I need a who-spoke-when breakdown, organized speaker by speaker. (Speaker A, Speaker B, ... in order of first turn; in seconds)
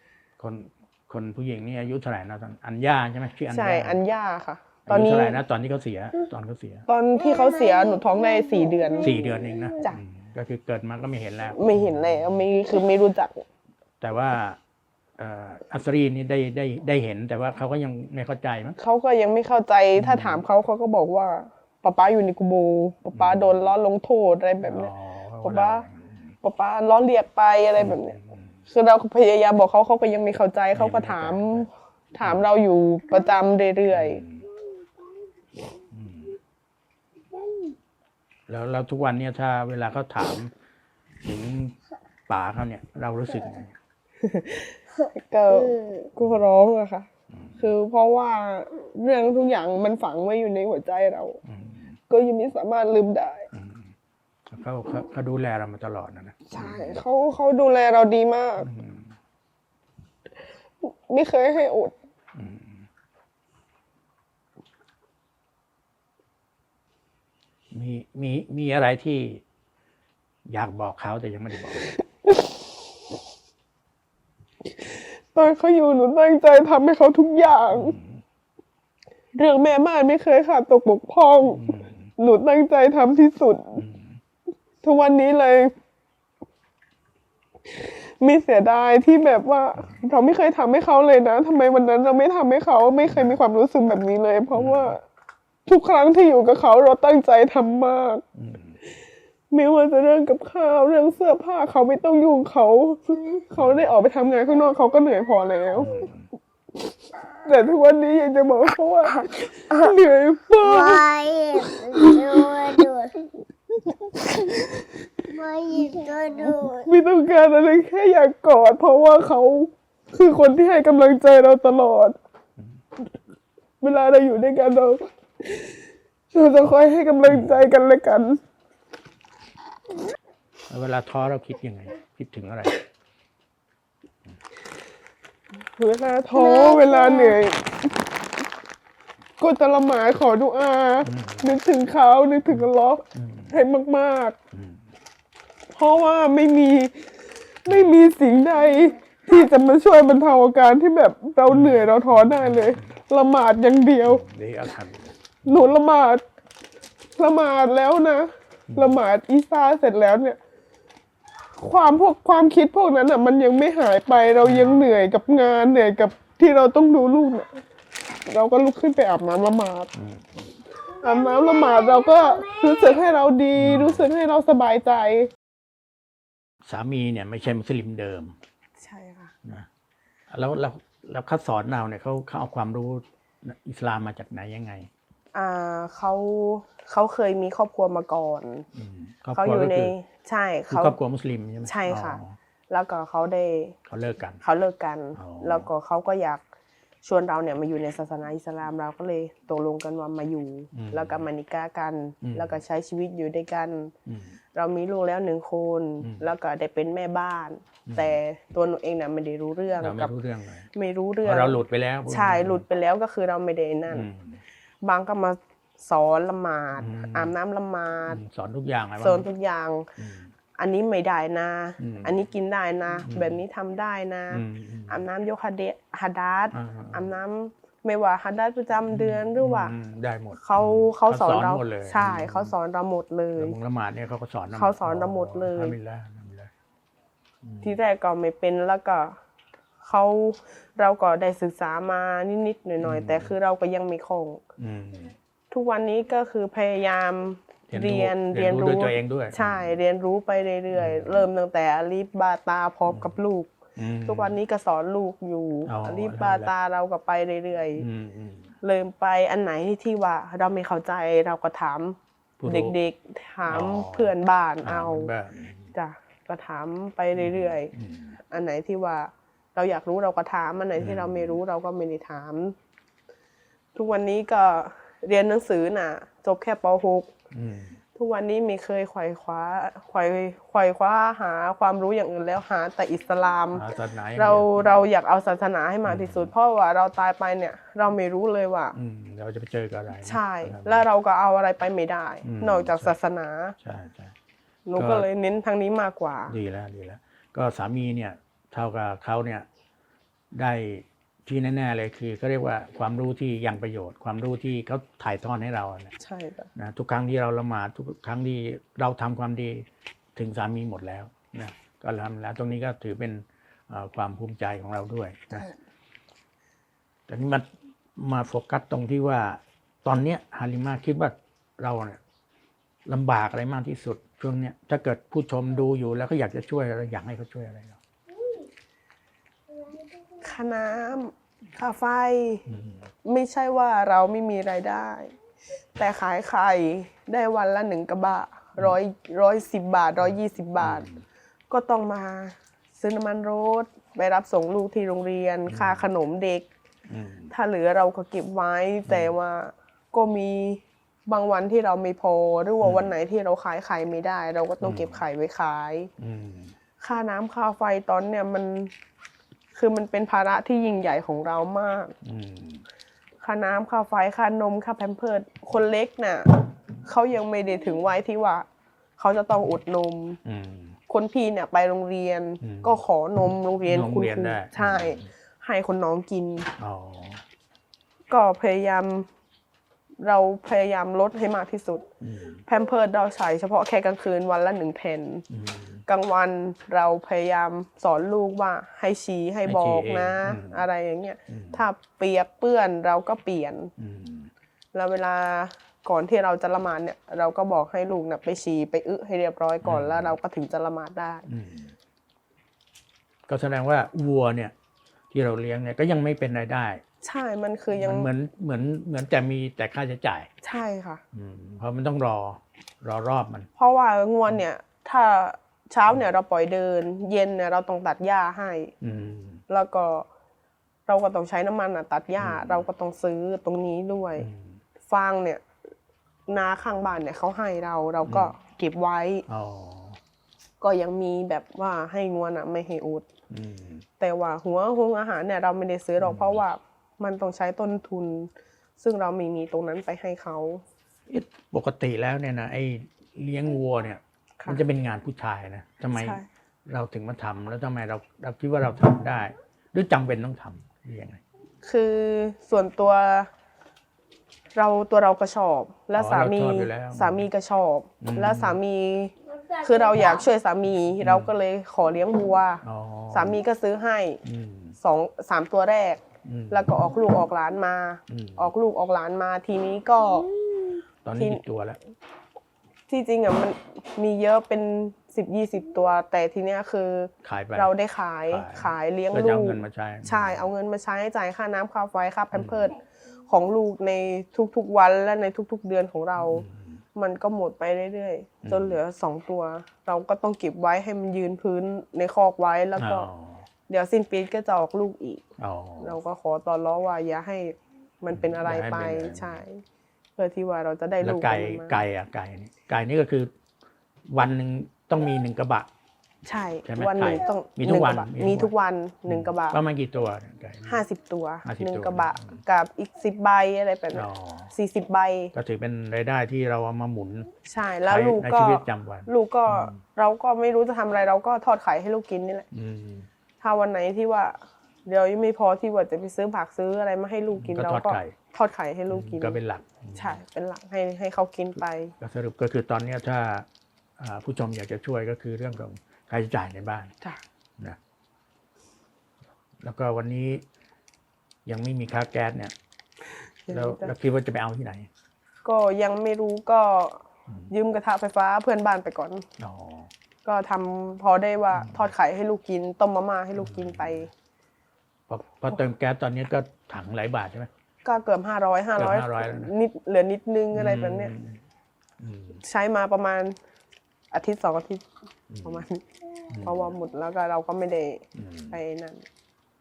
Speaker A: 0.4-4.0, 4.9-6.8, 9.0-12.4, 14.0-14.6, 15.2-18.8, 20.0-20.4, 23.1-23.6, 24.6-26.3, 27.8-28.5, 30.7-31.7, 33.9-34.5, 35.9-36.4, 38.5-40.5, 41.2-41.8, 42.3-43.8, 47.3-47.6, 51.5-52.0, 53.5-53.9, 54.5-57.0, 58.6-59.1, 62.4-62.9, 67.7-69.4, 70.5-71.8, 77.7-78.2, 81.5-82.1, 83.8-84.2, 94.5-95.0, 98.3-98.8, 103.6-103.9, 105.7-106.3, 127.3-127.6, 130.7-132.8, 141.0-141.5, 142.5-143.6, 144.5-144.8, 147.7-147.9, 151.5-152.9, 154.0-155.7, 158.7-159.0, 164.4-164.8, 169.9-170.3, 173.6-174.1, 176.7-178.4, 180.3-184.9, 188.8-189.9, 190.7-192.4, 193.9-194.4, 195.2-195.7, 200.7-201.3, 202.2-202.6, 204.1-204.4, 206.0-206.3, 207.9-208.2, 209.8-210.7, 211.2-212.6, 213.9-214.4, 216.8-217.3, 218.1-219.3, 220.0-220.3, 221.8-222.2, 223.1-223.4, 224.3-225.0, 226.5-227.1, 228.9-232.5, 233.4-236.5, 237.4-237.8, 242.8-243.3, 244.6-245.2, 247.7-249.8, 250.7-251.3, 252.9-253.2, 253.8-254.4, 255.7-256.5, 257.8-258.5, 262.4-262.8, 263.5-265.7, 267.1-268.2, 270.8-271.4, 277.3-277.8, 283.5-284.8, 285.9-286.3, 288.7-290.8, 292.2-292.9, 293.6-294.1, 294.8-295.1, 296.3-299.5, 300.3-305.9, 306.6-315.5, 317.1-317.5, 318.0-322.0, 322.9-327.8, 332.5-332.8, 340.0-341.0, 345.5-345.9, 346.9-347.3, 348.9-349.1, 352.6-352.9, 354.6-355.0, 356.0-356.5, 362.0-362.6, 370.2-370.8, 372.4-372.8, 373.7-375.1, 376.6-377.2, 382.0-382.4, 385.3-385.8, 389.4-390.6, 391.3-391.6, 393.8-394.3, 399.6-400.1, 401.3-401.7, 403.3-404.5, 405.1-406.8, 407.7-410.3, 411.1-413.5, 418.8-419.4, 422.2-422.7, 424.2-424.6, 428.1-428.3, 429.3-430.0, 433.3-433.9, 436.0-436.4, 441.1-451.2, 456.0-457.3, 458.0-458.6, 461.0-461.3, 462.6-463.4, 464.2-464.8, 466.2-466.7, 468.1-468.5, 471.1-471.8, 477.2-477.7, 478.3-480.5, 482.3-482.7, 486.2-486.8, 488.4-488.8, 492.8-493.5, 495.4-496.0, 498.1-499.4, 501.0-503.3, 504.1-505.7, 506.6-508.5, 509.1-510.8, 511.4-512.4, 513.9-514.5, 515.3-517.3, 517.9-519.8, 522.5-523.1, 527.4-528.1, 528.9-530.2, 532.0-533.5, 534.0-536.9, 539.6-540.4, 541.5-542.5, 543.5-544.9, 549.4-549.9, 551.5-551.9, 553.4-554.1, 555.1-557.5, 558.8-559.5, 560.5-561.4, 562.0-562.4, 565.3-565.6, 566.3-566.7, 568.1-568.6
Speaker B: 3.5-5.4, 6.9-9.2, 11.6-13.4, 18.8-24.9, 25.4-25.9, 26.4-28.2, 28.7-34.2, 44.2-51.4, 52.1-53.5, 56.5-58.7, 60.8-61.9, 74.8-78.0, 79.3-81.6, 82.2-83.8, 84.8-85.7, 87.8-95.0, 95.7-98.2, 99.5-106.1, 107.4-112.8, 113.9-114.8, 116.4-122.2, 123.8-125.7, 126.3-128.4, 135.8-137.9, 139.4-144.4, 145.8-147.0, 147.7-154.2, 155.4-156.2, 157.2-160.4, 161.6-167.5, 168.3-169.9, 171.0-175.3, 178.8-179.3, 185.3-188.7, 189.3-191.0, 191.7-193.8, 194.4-196.4, 197.0-203.9, 204.5-210.1, 210.8-214.1, 214.8-218.2, 219.0-219.9, 220.6-229.7, 230.4-233.6, 234.5-235.8, 237.6-239.2, 239.8-244.4, 245.5-257.9, 258.6-265.1, 265.7-267.7, 268.3-272.6, 273.8-277.1, 278.0-283.6, 284.2-288.8, 290.1-293.6, 294.7-296.4, 306.0-306.5, 330.2-332.4, 333.1-335.1, 335.8-340.9, 341.5-346.5, 347.3-355.9, 356.8-358.7, 359.6-361.9, 363.2-368.5, 369.0-370.2, 370.9-376.5, 378.1-379.1, 380.0-381.9, 382.5-385.2, 385.9-393.7, 394.7-401.3, 407.0-408.1, 410.4-411.0, 413.6-418.7, 419.5-420.1, 420.9-424.3, 424.9-425.4, 426.3-429.2, 430.6-433.1, 434.0-440.6, 445.9-446.3, 451.6-453.3, 454.6-464.2, 464.8-470.3, 472.9-482.8, 483.3-493.1, 493.7-495.2, 495.8-499.6, 500.2-501.8, 506.2-509.6, 510.7-515.3, 517.5-522.5, 523.4-529.4, 530.0-531.9, 543.5-543.9, 545.5-549.3, 550.2-554.1, 557.9-561.1, 562.4-563.4, 564.1-564.9, 565.4-565.8, 566.4-569.1
Speaker C: 7.3-8.8, 110.6-113.1, 115.3-116.9, 136.4-137.4, 171.2-172.9